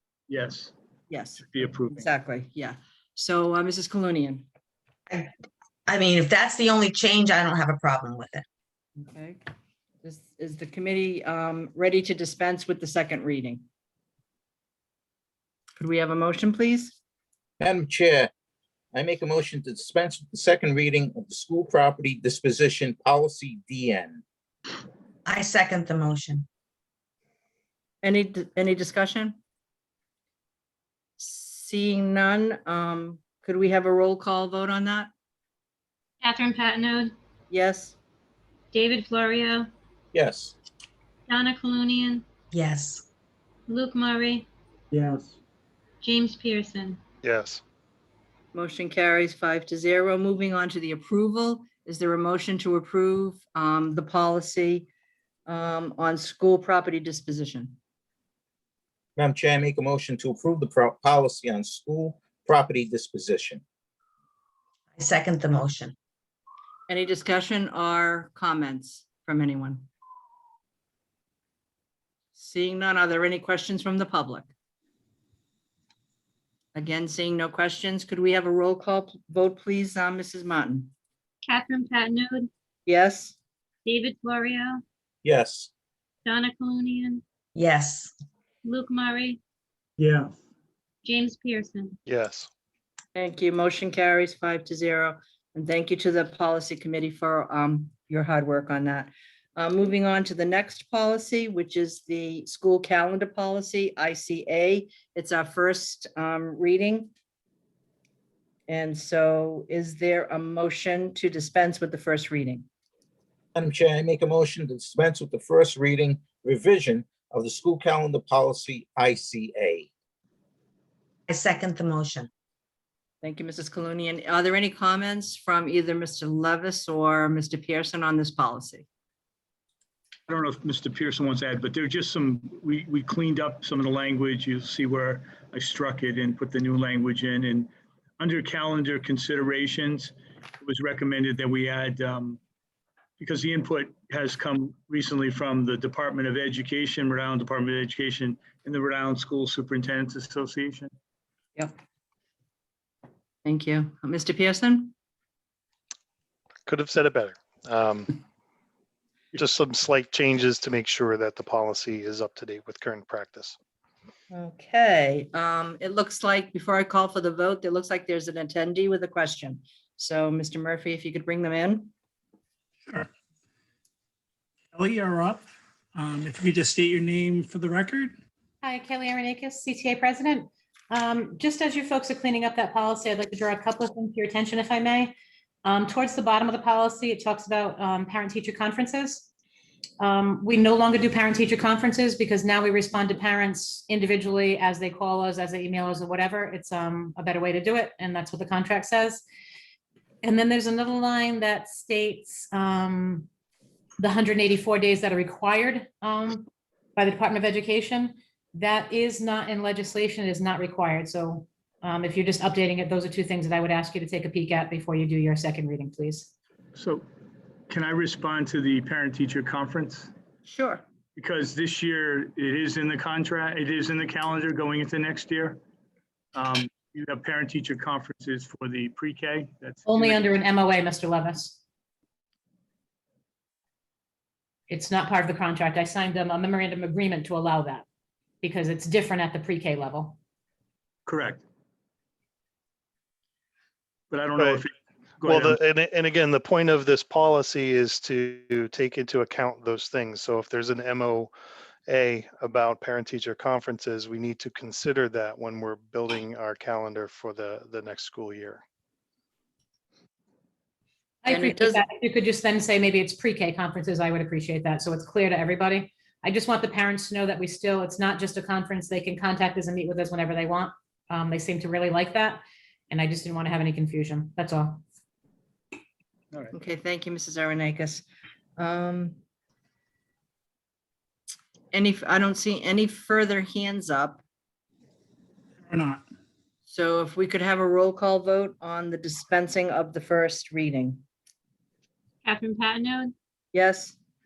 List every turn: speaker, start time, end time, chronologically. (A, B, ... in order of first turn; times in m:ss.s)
0:00.3-0:00.7 A
0:01.1-0:04.5 B
0:01.4-0:02.1 A
0:05.9-0:08.4 C
0:09.0-0:09.4 B
0:10.0-0:13.6 B
0:15.8-0:17.0 B
0:17.6-0:18.3 D
0:18.9-0:24.2 D
0:25.3-0:26.5 C
0:28.0-0:29.4 B
0:31.2-0:35.1 B
0:36.2-0:37.1 E
0:37.5-0:38.0 B
0:38.7-0:39.7 E
0:40.1-0:40.6 D
0:41.3-0:42.2 E
0:42.5-0:43.0 C
0:43.7-0:44.5 E
0:45.0-0:45.2 A
0:46.0-0:47.0 E
0:47.2-0:47.6 F
0:48.5-0:54.9 B
0:55.5-0:57.8 B
0:59.2-1:03.6 D
1:05.0-1:06.0 C
1:06.9-1:09.9 B
1:12.4-1:14.5 B
1:16.8-1:20.9 B
1:21.4-1:22.5 E
1:22.9-1:23.4 B
1:23.8-1:24.8 E
1:25.2-1:25.7 D
1:26.2-1:27.2 E
1:27.6-1:28.1 C
1:28.6-1:29.4 E
1:30.0-1:30.3 A
1:31.0-1:32.0 E
1:32.1-1:32.5 F
1:33.2-1:47.1 B
1:48.7-1:52.7 B
1:53.6-1:59.9 D
2:01.3-2:02.3 C
2:03.2-2:08.9 B
2:10.3-2:22.4 A
2:23.2-2:30.9 A
2:33.4-2:34.9 B
2:36.7-2:38.2 F
2:39.3-2:43.6 F
2:44.3-2:51.9 B
2:54.7-2:58.2 G
2:58.6-3:09.3 H
3:10.0-3:19.2 H
3:20.2-3:23.3 H
3:24.0-3:36.3 H
3:36.8-3:37.0 A
3:37.7-3:40.1 A
3:40.5-3:40.8 B
3:41.2-3:45.6 A
3:46.4-3:50.3 A
3:49.9-3:51.6 H
3:54.7-3:57.8 H
3:58.4-4:00.2 H
4:01.1-4:01.4 A
4:04.1-4:05.6 A
4:04.4-4:04.6 F
4:05.2-4:11.3 F
4:11.9-4:18.6 F
4:21.2-4:34.8 H
4:21.3-4:21.8 B
4:36.5-4:38.0 B
4:38.6-4:39.2 B
4:41.7-4:44.2 B
4:45.7-4:46.0 G
4:46.7-4:51.0 B
4:52.2-4:53.1 E
4:53.5-4:54.0 B